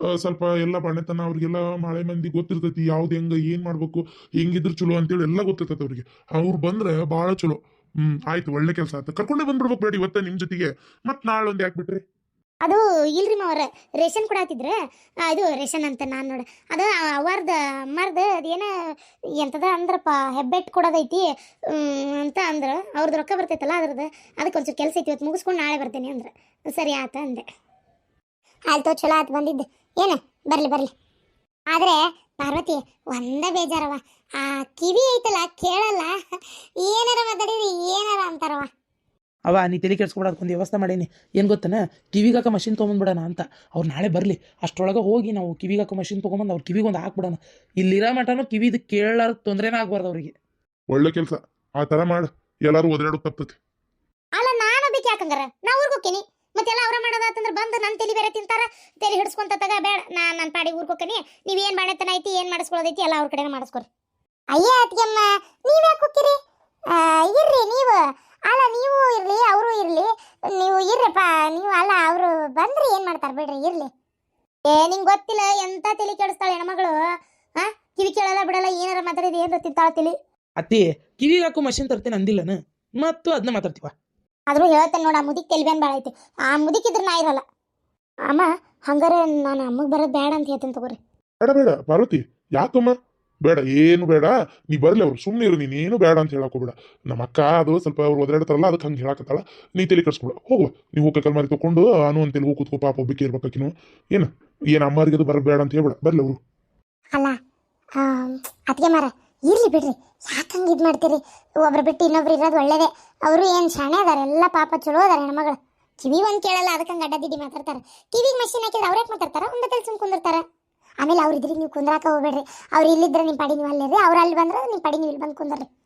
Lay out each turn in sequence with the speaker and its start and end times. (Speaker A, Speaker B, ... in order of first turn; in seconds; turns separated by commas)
Speaker A: 0.1-12.0, Speaker B: 12.6-14.7, Speaker B: 15.3-18.7, Speaker B: 19.4-27.4, Speaker B: 28.7-30.9, Speaker B: 31.7-36.1, Speaker B: 36.8-38.7, Speaker C: 39.5-50.3, Speaker A: 50.9-53.5, Speaker B: 54.4-63.9, Speaker B: 64.5-66.3, Speaker B: 66.9-73.9, Speaker B: 74.7-77.0, Speaker B: 77.6-80.1, Speaker C: 80.6-83.9, Speaker B: 84.5-87.4, Speaker B: 88.3-91.0, Speaker A: 91.4-106.4, Speaker B: 108.0-120.4, Speaker B: 121.0-125.7